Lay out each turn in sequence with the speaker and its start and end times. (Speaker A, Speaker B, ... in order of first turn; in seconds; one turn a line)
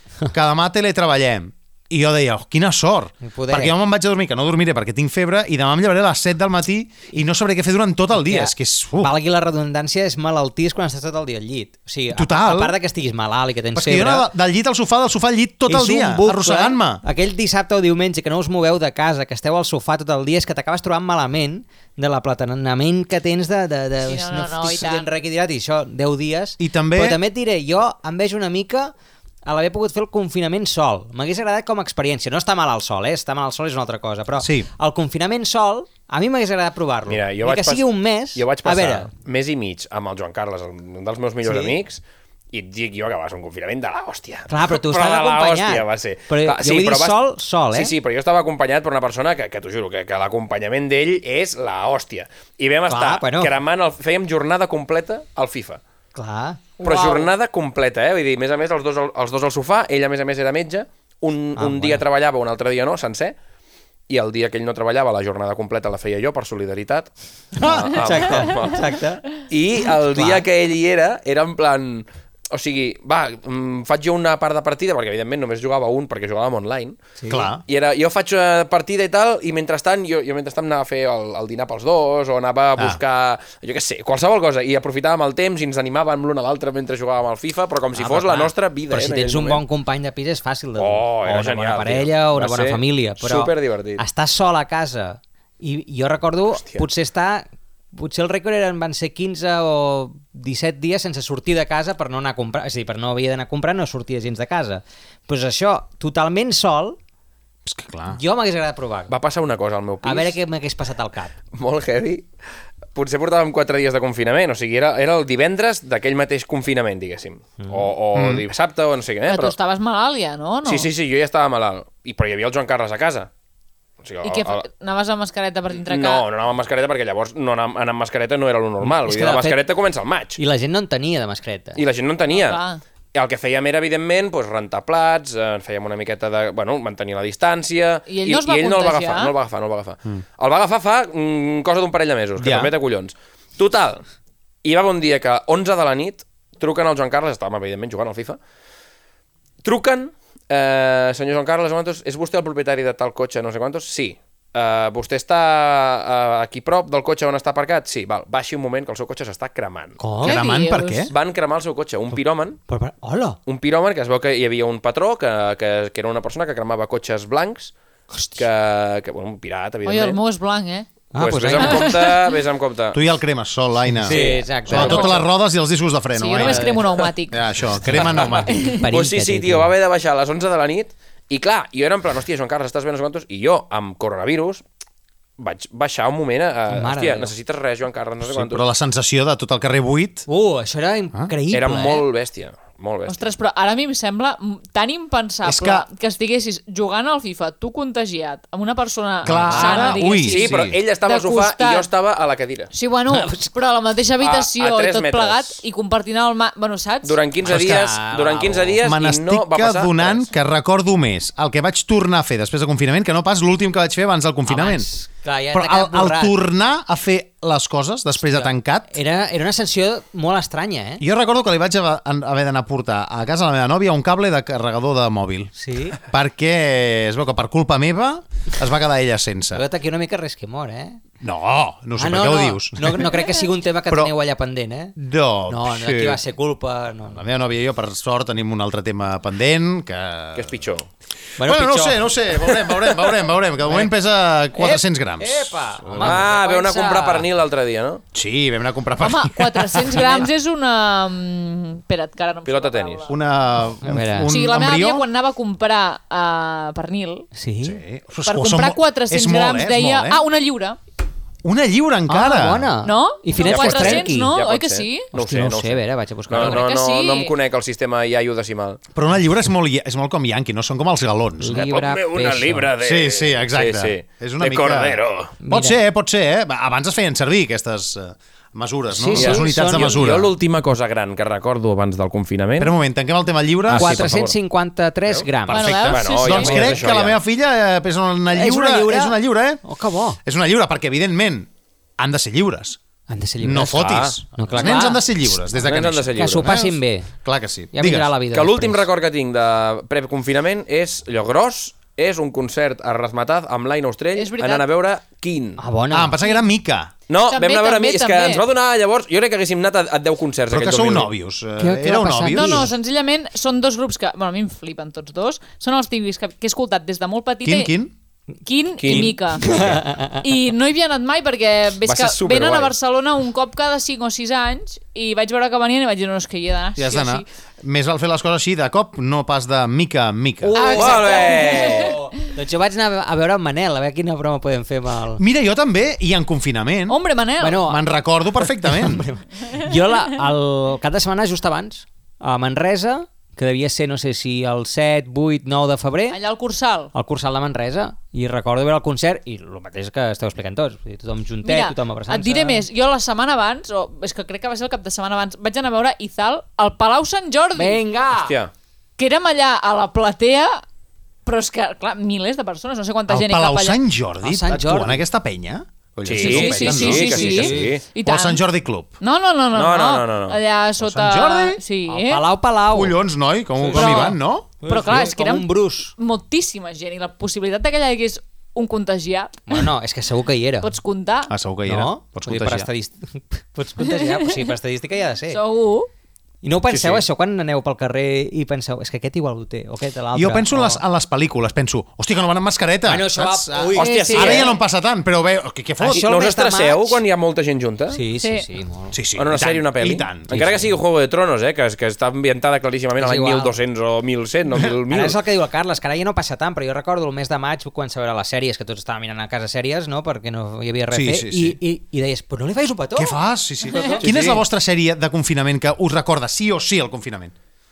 Speaker A: 0.3-9.1
Speaker B: 3.2-3.8
Speaker B: 8.1-14.3
Speaker A: 12.1-12.8
Speaker A: 13.7-17.0
Speaker B: 15.7-28.9
Speaker C: 24.0-25.1
Speaker A: 26.6-27.2
Speaker B: 29.5-39.1
Speaker A: 34.4-34.7
Speaker D: 37.1-55.8
Speaker B: 41.5-41.8
Speaker B: 44.5-47.9
Speaker B: 52.9-53.5
Speaker B: 56.1-56.6
Speaker C: 56.8-57.3
Speaker D: 56.8-63.4
Speaker B: 61.6-62.0
Speaker D: 64.1-77.0
Speaker B: 67.6-69.2
Speaker A: 67.6-68.0
Speaker B: 70.1-70.5
Speaker B: 77.2-77.5
Speaker A: 77.3-77.6
Speaker D: 77.7-89.6
Speaker B: 87.9-107.0
Speaker D: 90.8-94.0
Speaker D: 96.6-96.9
Speaker A: 107.7-108.2
Speaker B: 108.1-109.1
Speaker D: 109.1-110.4
Speaker B: 110.0-111.3
Speaker D: 111.5-112.3
Speaker D: 113.0-119.6
Speaker A: 118.1-118.5
Speaker C: 119.3-120.9
Speaker D: 120.6-123.3
Speaker D: 124.0-124.6
Speaker C: 124.2-126.3
Speaker D: 125.7-130.4
Speaker B: 128.8-129.6
Speaker B: 130.4-131.8
Speaker D: 131.8-132.6
Speaker C: 132.3-132.8
Speaker D: 133.1-144.0
Speaker C: 138.1-139.3
Speaker A: 142.4-142.7
Speaker D: 144.6-148.4
Speaker D: 149.6-160.0
Speaker B: 160.0-160.4
Speaker A: 160.2-161.1
Speaker C: 160.2-161.1
Speaker D: 161.1-162.6
Speaker B: 162.7-163.4
Speaker D: 163.5-167.7
Speaker B: 168.1-168.5
Speaker D: 168.4-170.2
Speaker C: 169.8-170.9
Speaker B: 171.1-172.0
Speaker D: 171.2-173.0
Speaker C: 171.6-172.2
Speaker A: 172.9-178.7
Speaker B: 173.9-175.2
Speaker D: 174.1-175.2
Speaker C: 176.1-177.4
Speaker B: 176.4-176.8
Speaker B: 177.7-179.7
Speaker D: 178.0-184.7
Speaker C: 178.4-178.8
Speaker D: 185.4-188.7
Speaker B: 186.7-187.3
Speaker A: 188.2-190.3
Speaker B: 190.3-192.1
Speaker D: 191.5-193.3
Speaker C: 193.1-201.9
Speaker A: 195.4-195.9
Speaker A: 199.2-200.8
Speaker B: 199.5-199.9
Speaker D: 199.6-202.7
Speaker C: 202.7-207.2
Speaker D: 204.2-205.6
Speaker D: 207.0-210.3
Speaker B: 207.4-208.8
Speaker A: 207.5-207.8
Speaker A: 208.8-214.9
Speaker B: 214.5-216.4
Speaker A: 215.5-218.9
Speaker B: 218.2-221.0
Speaker A: 221.0-229.7
Speaker B: 225.6-226.0
Speaker B: 229.5-231.0
Speaker A: 231.2-233.1
Speaker B: 232.0-234.9
Speaker A: 235.0-236.2
Speaker B: 235.5-237.2
Speaker A: 237.1-240.5
Speaker D: 240.3-240.9
Speaker B: 241.4-242.2
Speaker A: 241.4-246.3
Speaker B: 243.6-243.9
Speaker B: 244.5-247.3
Speaker D: 246.0-248.0
Speaker A: 248.1-250.2
Speaker C: 249.0-253.2
Speaker B: 249.9-250.3
Speaker D: 252.4-253.1
Speaker A: 253.1-255.1
Speaker B: 253.8-254.3
Speaker C: 254.3-257.3
Speaker B: 257.4-257.8
Speaker A: 257.6-260.2
Speaker C: 258.2-260.8
Speaker A: 261.4-262.7
Speaker B: 262.1-264.4
Speaker C: 262.8-265.1
Speaker D: 263.4-268.8
Speaker B: 265.1-266.7
Speaker C: 266.3-267.4
Speaker A: 268.9-271.7
Speaker B: 271.4-272.7
Speaker D: 271.6-275.4
Speaker A: 272.8-280.3
Speaker B: 275.4-275.8
Speaker B: 278.9-280.1
Speaker D: 279.1-282.7
Speaker A: 282.6-284.1
Speaker D: 283.7-284.4
Speaker B: 283.7-285.7
Speaker A: 285.4-289.6
Speaker C: 285.5-286.7
Speaker D: 285.8-287.2
Speaker B: 286.3-286.9
Speaker B: 288.3-290.2
Speaker A: 290.2-292.8
Speaker B: 293.1-295.5
Speaker A: 293.4-298.1
Speaker D: 293.7-294.1
Speaker D: 295.6-296.6
Speaker B: 296.1-297.1
Speaker B: 297.7-298.9
Speaker D: 298.3-305.6
Speaker C: 304.1-304.7
Speaker B: 305.6-306.1
Speaker A: 305.9-306.9
Speaker D: 307.1-311.1
Speaker C: 307.3-308.5
Speaker A: 310.5-312.7
Speaker B: 311.6-312.7
Speaker C: 312.3-317.7
Speaker A: 317.4-317.9
Speaker C: 318.4-319.5
Speaker D: 318.8-319.8
Speaker B: 318.9-320.2
Speaker C: 320.2-327.3
Speaker D: 321.8-322.8
Speaker A: 326.8-330.6
Speaker B: 330.4-335.2
Speaker C: 330.6-332.0
Speaker D: 330.7-332.0
Speaker A: 335.2-337.0
Speaker C: 336.9-337.6
Speaker B: 337.4-346.2
Speaker A: 337.6-339.1
Speaker C: 346.1-346.9
Speaker B: 346.9-352.7
Speaker C: 351.4-357.8
Speaker B: 357.6-358.4
Speaker D: 358.1-358.5
Speaker C: 359.0-360.6
Speaker C: 361.3-363.8
Speaker A: 363.1-368.9
Speaker B: 364.2-365.1
Speaker D: 366.1-367.8
Speaker C: 366.2-368.4
Speaker B: 366.4-367.8
Speaker C: 369.0-372.2
Speaker D: 369.5-370.4
Speaker A: 370.8-371.6
Speaker B: 371.9-373.0
Speaker A: 372.7-374.5
Speaker B: 373.6-374.1
Speaker C: 373.7-379.6
Speaker B: 374.6-375.9
Speaker B: 379.5-380.7
Speaker C: 380.6-381.3
Speaker A: 381.3-382.7
Speaker B: 381.7-385.4
Speaker C: 383.8-384.5
Speaker C: 385.3-385.9
Speaker B: 386.4-390.8
Speaker D: 386.7-387.0
Speaker A: 390.1-396.1
Speaker B: 392.9-394.6
Speaker C: 393.8-394.5
Speaker D: 393.8-394.6
Speaker B: 395.8-397.0
Speaker D: 395.9-398.0
Speaker B: 397.9-399.0
Speaker C: 398.2-398.5
Speaker A: 398.9-400.5
Speaker D: 399.1-405.2
Speaker B: 400.3-400.8
Speaker B: 403.0-403.6
Speaker B: 404.9-413.2
Speaker A: 410.9-411.6
Speaker A: 413.0-417.3
Speaker B: 413.7-414.4
Speaker D: 414.1-414.4